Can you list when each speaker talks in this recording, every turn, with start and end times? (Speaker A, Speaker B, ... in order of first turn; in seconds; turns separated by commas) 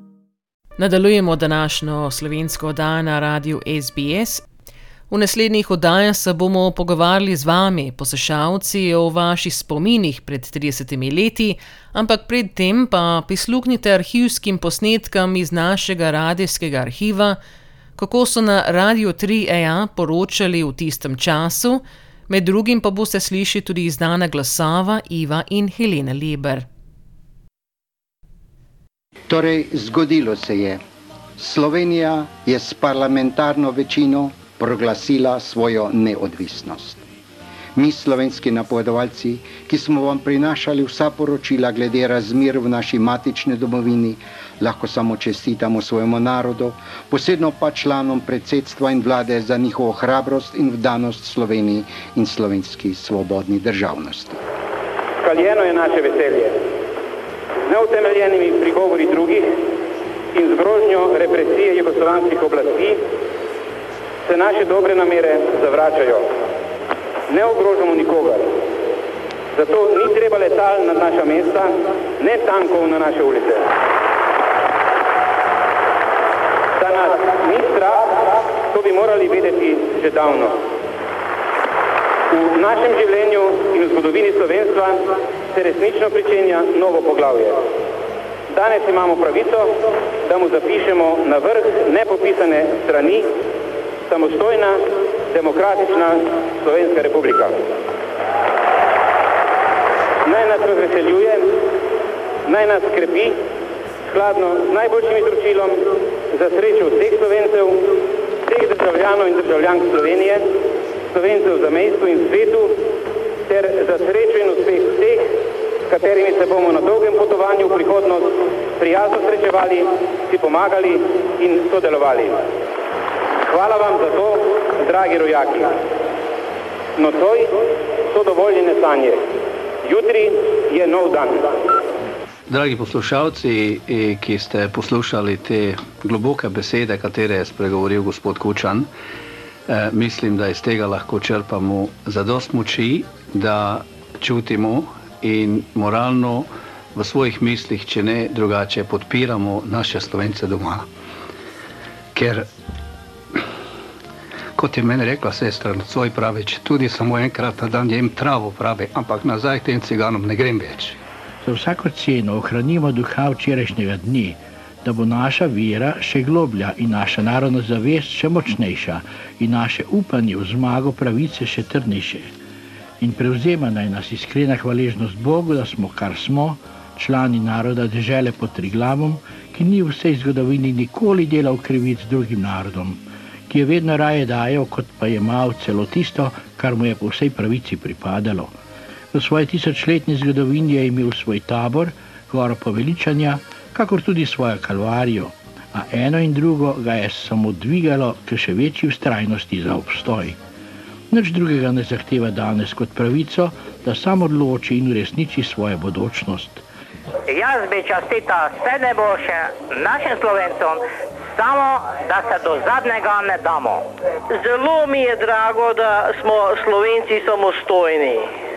Speaker A: 0.8-4.4, Speaker A: 5.1-17.4, Speaker A: 18.0-26.6, Speaker B: 29.3-30.8, Speaker B: 31.4-37.0, Speaker B: 37.8-54.4, Speaker C: 55.2-56.5, Speaker C: 57.7-59.5, Speaker C: 60.3-63.0, Speaker C: 64.3-66.3, Speaker C: 67.3-68.5, Speaker C: 69.5-73.7, Speaker C: 76.8-80.6, Speaker C: 82.3-87.6, Speaker C: 88.5-93.3, Speaker C: 94.1-97.6, Speaker C: 100.2-101.5, Speaker C: 102.5-103.3, Speaker C: 104.1-108.0, Speaker C: 108.5-110.5, Speaker C: 111.1-112.8, Speaker C: 113.5-115.3, Speaker C: 115.9-122.4, Speaker C: 123.5-125.7, Speaker C: 127.0-127.5, Speaker C: 128.1-129.2, Speaker C: 129.8-131.5, Speaker D: 132.5-138.9, Speaker D: 139.7-150.8, Speaker D: 152.1-152.5, Speaker D: 154.6-160.9, Speaker E: 161.4-172.2, Speaker E: 173.0-182.9, Speaker E: 183.5-188.5, Speaker E: 189.1-200.3, Speaker E: 201.1-206.5, Speaker F: 207.3-210.8, Speaker G: 207.4-209.4, Speaker G: 210.0-210.3, Speaker F: 211.4-213.8, Speaker G: 211.5-213.8, Speaker G: 214.3-218.3